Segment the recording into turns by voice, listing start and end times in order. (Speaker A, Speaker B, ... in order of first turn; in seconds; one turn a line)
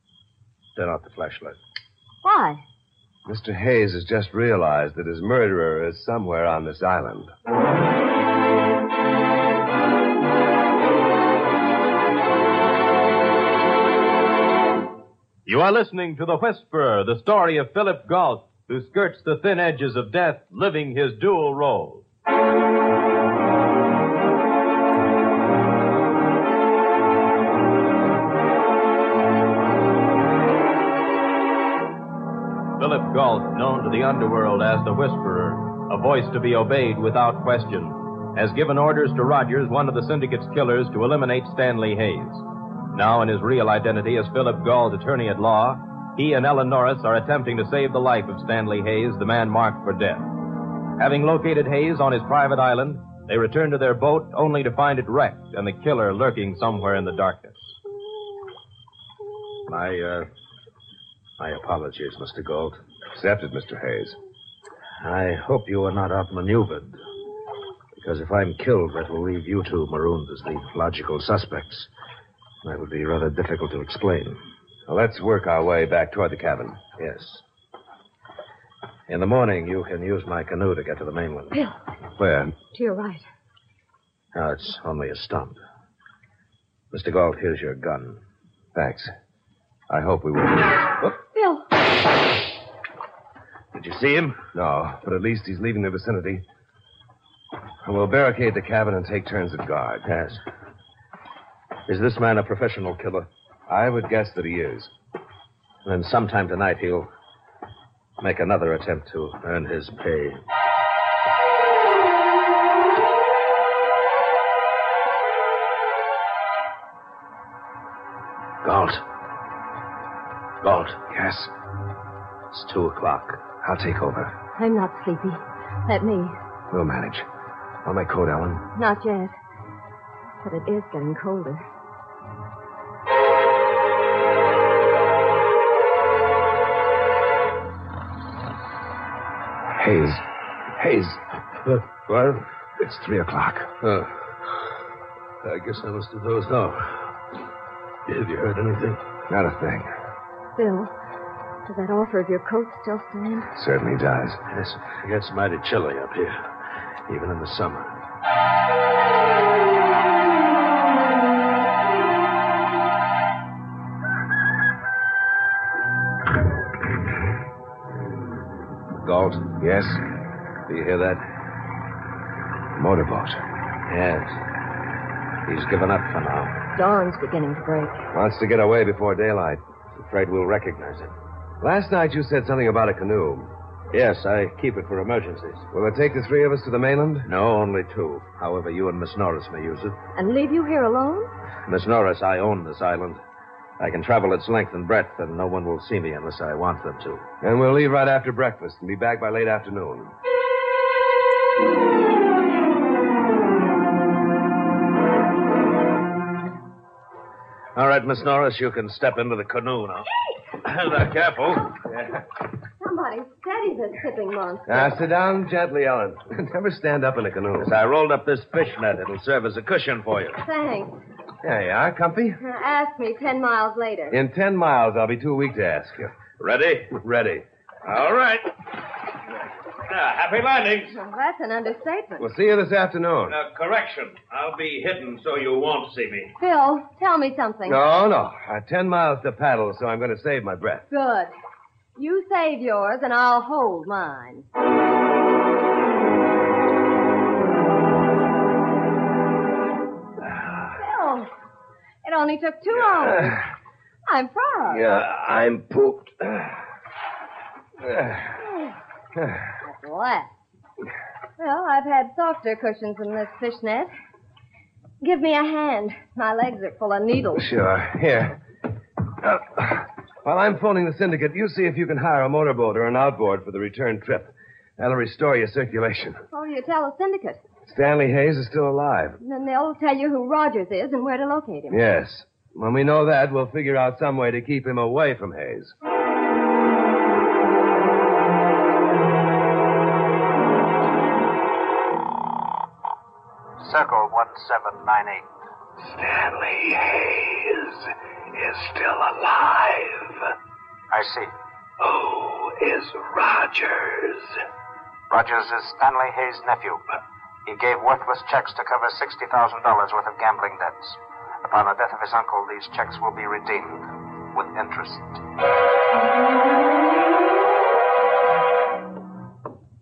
Speaker A: 0.8-1.6
Speaker B: 2.2-2.6
Speaker C: 3.2-7.3
Speaker D: 15.4-22.0
Speaker D: 32.8-50.3
Speaker D: 51.0-57.7
Speaker A: 59.7-60.3
Speaker A: 61.4-62.8
Speaker C: 63.1-64.2
Speaker A: 65.0-66.9
Speaker A: 68.0-71.9
Speaker A: 72.6-74.4
Speaker C: 74.9-76.8
Speaker A: 77.0-77.4
Speaker A: 79.1-81.5
Speaker C: 82.2-82.5
Speaker B: 82.7-83.2
Speaker A: 84.3-85.6
Speaker A: 86.9-88.2
Speaker C: 88.7-89.1
Speaker C: 89.9-91.1
Speaker B: 91.3-91.7
Speaker A: 93.7-94.4
Speaker C: 94.5-96.4
Speaker C: 97.8-100.1
Speaker A: 100.0-100.4
Speaker A: 101.9-103.3
Speaker C: 103.7-104.9
Speaker A: 105.8-107.1
Speaker A: 108.2-110.4
Speaker A: 118.6-119.0
Speaker A: 120.6-121.0
Speaker C: 121.1-121.5
Speaker A: 122.5-123.5
Speaker C: 123.6-124.3
Speaker B: 124.5-126.4
Speaker C: 126.7-127.2
Speaker C: 127.8-128.7
Speaker B: 128.7-129.3
Speaker B: 130.4-131.6
Speaker C: 139.7-140.2
Speaker C: 140.8-141.2
Speaker A: 142.1-142.4
Speaker C: 142.8-143.7
Speaker A: 143.8-144.2
Speaker A: 145.4-147.1
Speaker A: 148.1-149.0
Speaker C: 149.3-149.9
Speaker B: 150.6-150.9
Speaker B: 151.7-153.5
Speaker C: 153.5-154.4
Speaker A: 154.5-156.5
Speaker A: 157.1-158.0
Speaker A: 168.9-169.6
Speaker C: 169.6-170.0
Speaker A: 170.7-171.2
Speaker C: 172.8-173.4
Speaker A: 173.9-174.3
Speaker A: 175.4-176.6
Speaker B: 176.8-178.1
Speaker C: 178.1-179.6
Speaker A: 179.9-181.1
Speaker C: 181.6-183.5
Speaker A: 183.9-185.7
Speaker C: 185.7-187.3
Speaker A: 187.2-190.0
Speaker B: 190.1-191.3
Speaker A: 191.7-193.2
Speaker A: 193.8-197.3
Speaker C: 197.4-200.1
Speaker A: 207.7-210.1
Speaker A: 210.6-211.7
Speaker C: 211.9-212.2
Speaker B: 212.8-214.9
Speaker C: 214.7-217.7
Speaker A: 217.6-220.4
Speaker B: 220.4-220.9
Speaker C: 221.4-222.4
Speaker B: 222.4-224.2
Speaker C: 224.1-226.1
Speaker A: 226.4-228.5
Speaker A: 229.8-231.0
Speaker B: 230.9-232.2
Speaker C: 232.2-233.3
Speaker A: 233.3-236.3
Speaker B: 236.4-237.9
Speaker C: 237.6-240.8
Speaker B: 240.9-241.3
Speaker B: 241.9-244.4
Speaker B: 250.8-251.3
Speaker B: 252.0-253.4
Speaker B: 254.1-254.9
Speaker C: 254.7-256.5
Speaker C: 257.8-258.3
Speaker B: 259.6-260.3
Speaker B: 261.4-263.9
Speaker B: 265.0-267.5
Speaker C: 267.3-268.4
Speaker C: 269.2-276.2
Speaker B: 276.3-277.4
Speaker C: 277.6-279.2
Speaker B: 279.2-281.8
Speaker C: 281.7-285.7
Speaker E: 293.6-295.3
Speaker F: 295.8-300.2
Speaker E: 300.9-301.3
Speaker F: 301.8-304.4
Speaker E: 305.1-306.8
Speaker E: 307.4-315.2